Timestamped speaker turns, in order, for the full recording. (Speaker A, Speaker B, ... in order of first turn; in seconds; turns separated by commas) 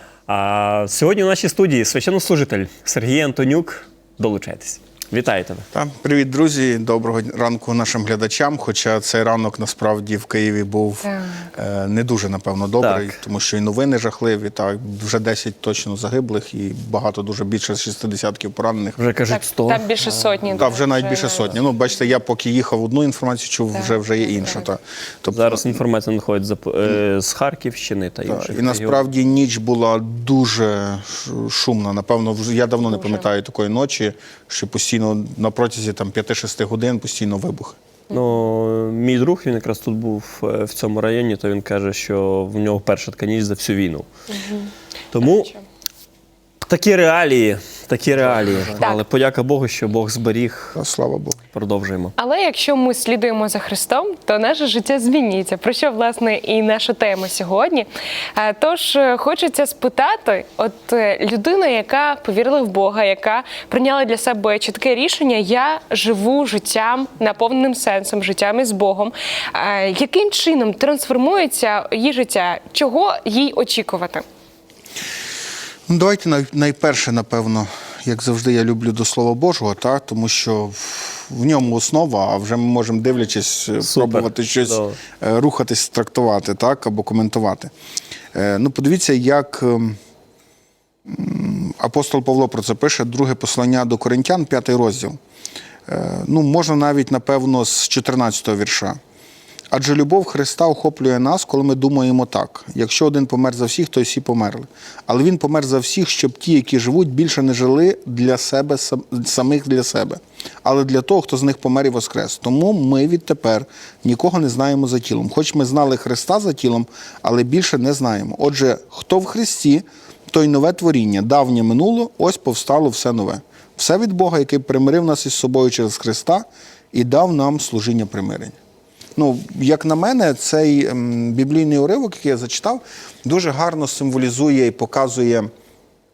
Speaker A: 0.3-5.7, Speaker B: 5.7-19.0, Speaker C: 11.0-11.5, Speaker A: 12.8-13.2, Speaker A: 19.0-20.1, Speaker C: 19.3-21.6, Speaker B: 20.6-25.8, Speaker C: 23.7-24.7, Speaker A: 25.3-29.0, Speaker B: 28.3-37.8, Speaker A: 38.1-44.1, Speaker C: 44.3-45.6, Speaker A: 45.1-45.5, Speaker A: 46.6-50.8, Speaker B: 48.3-48.8, Speaker B: 50.8-51.4, Speaker A: 51.5-52.1, Speaker C: 52.2-74.2, Speaker B: 75.9-87.7, Speaker A: 83.8-85.0, Speaker B: 88.3-90.0, Speaker B: 91.1-95.2, Speaker B: 95.9-99.0, Speaker B: 99.7-128.6, Speaker B: 129.2-135.5